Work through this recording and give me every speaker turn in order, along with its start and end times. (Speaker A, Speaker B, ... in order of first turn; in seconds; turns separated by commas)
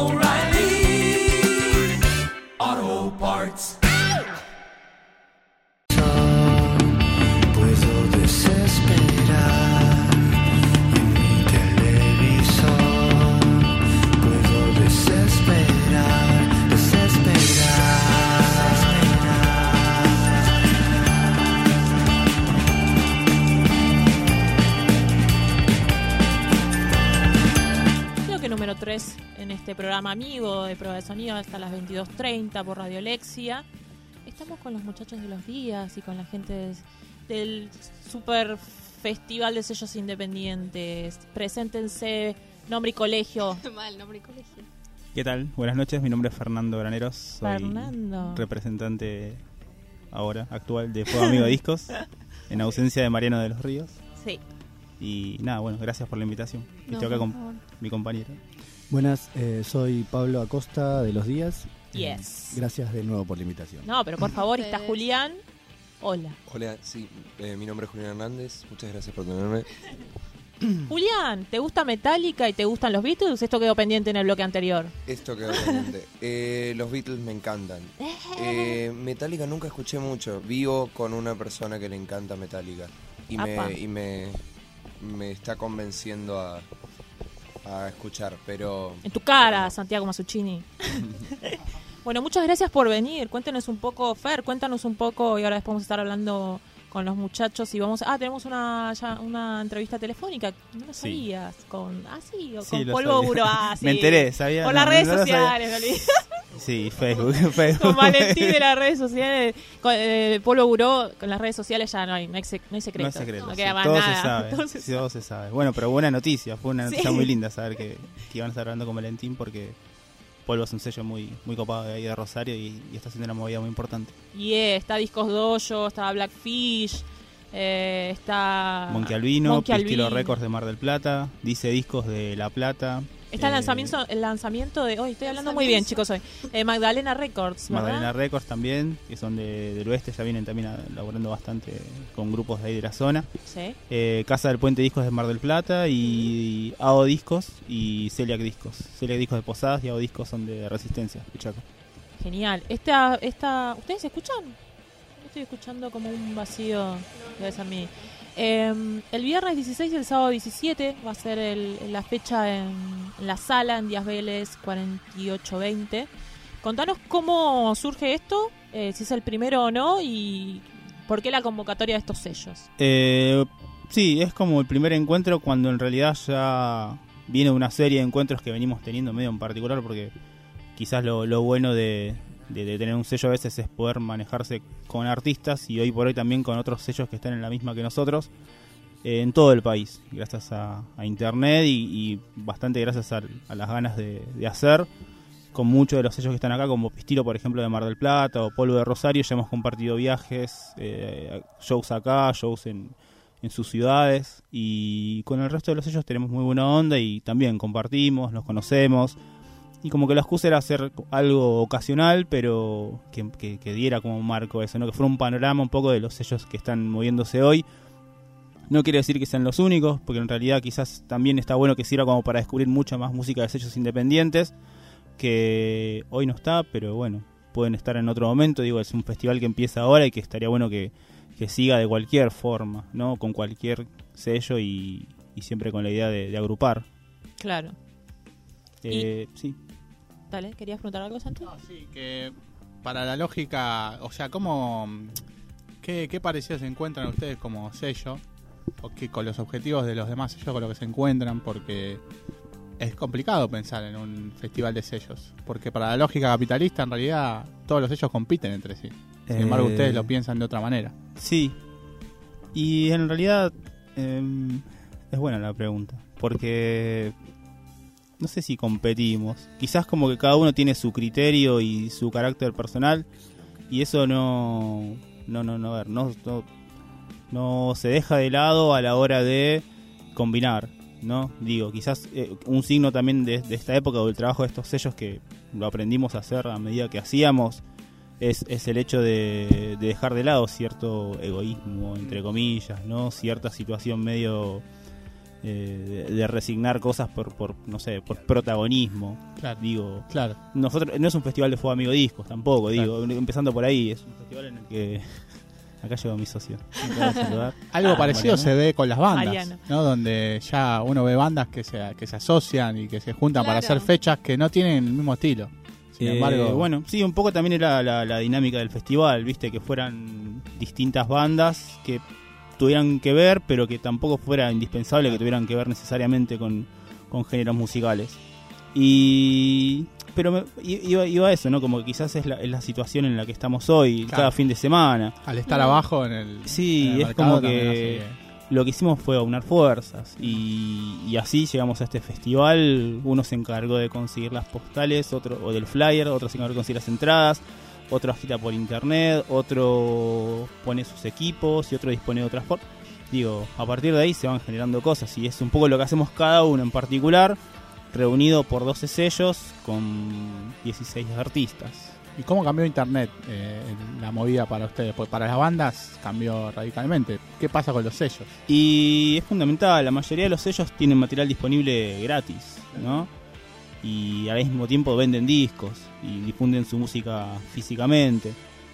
Speaker A: 5.9-10.3, Speaker A: 10.9-20.4, Speaker B: 28.2-33.6, Speaker B: 34.3-43.6, Speaker C: 43.6-44.7, Speaker D: 45.1-49.5, Speaker B: 47.4-48.5, Speaker D: 50.1-54.0, Speaker D: 55.0-58.4, Speaker B: 56.9-57.3, Speaker C: 57.4-57.6, Speaker A: 58.9-63.9, Speaker B: 61.9-62.6, Speaker B: 63.8-65.4, Speaker C: 64.3-65.0, Speaker B: 66.0-66.4, Speaker E: 66.5-69.7, Speaker B: 70.9-74.9, Speaker E: 75.1-84.4, Speaker B: 78.0-78.8, Speaker B: 83.3-83.8, Speaker E: 85.0-86.7, Speaker E: 87.6-89.7, Speaker B: 89.0-106.2, Speaker D: 101.0-101.2, Speaker D: 102.6-105.6, Speaker D: 106.5-108.6, Speaker B: 107.7-115.0, Speaker D: 113.0-119.8, Speaker D: 120.4-124.1, Speaker B: 124.3-130.4, Speaker D: 128.9-134.0, Speaker B: 133.3-138.1, Speaker C: 135.2-136.0, Speaker D: 137.7-151.6, Speaker B: 143.5-143.8, Speaker B: 152.2-154.6, Speaker B: 155.2-166.1, Speaker C: 157.1-158.1, Speaker B: 166.6-172.7, Speaker D: 172.8-180.1, Speaker D: 180.8-188.3, Speaker D: 189.0-194.9, Speaker D: 195.5-209.2, Speaker D: 209.8-217.7, Speaker D: 218.7-224.5, Speaker D: 225.2-236.8, Speaker B: 237.4-237.8, Speaker D: 238.8-239.6, Speaker B: 240.3-241.5, Speaker F: 241.4-245.2, Speaker F: 245.8-248.2, Speaker F: 248.8-252.1, Speaker F: 252.8-260.9, Speaker D: 259.3-260.1, Speaker D: 261.1-261.6, Speaker D: 262.5-267.1, Speaker D: 268.2-273.1, Speaker D: 273.7-276.5, Speaker D: 277.3-279.6, Speaker D: 280.1-287.6, Speaker D: 288.2-294.7, Speaker D: 295.4-308.6, Speaker F: 299.4-300.4, Speaker F: 302.7-303.0, Speaker F: 307.7-316.7, Speaker B: 309.1-309.6, Speaker C: 313.3-313.9, Speaker D: 316.0-322.0, Speaker D: 322.6-328.2, Speaker D: 328.7-335.2, Speaker F: 334.1-334.5, Speaker F: 335.2-338.2, Speaker C: 335.5-335.8, Speaker D: 336.5-357.4, Speaker D: 357.9-362.0, Speaker F: 362.2-368.4, Speaker D: 368.5-373.1, Speaker D: 373.8-378.4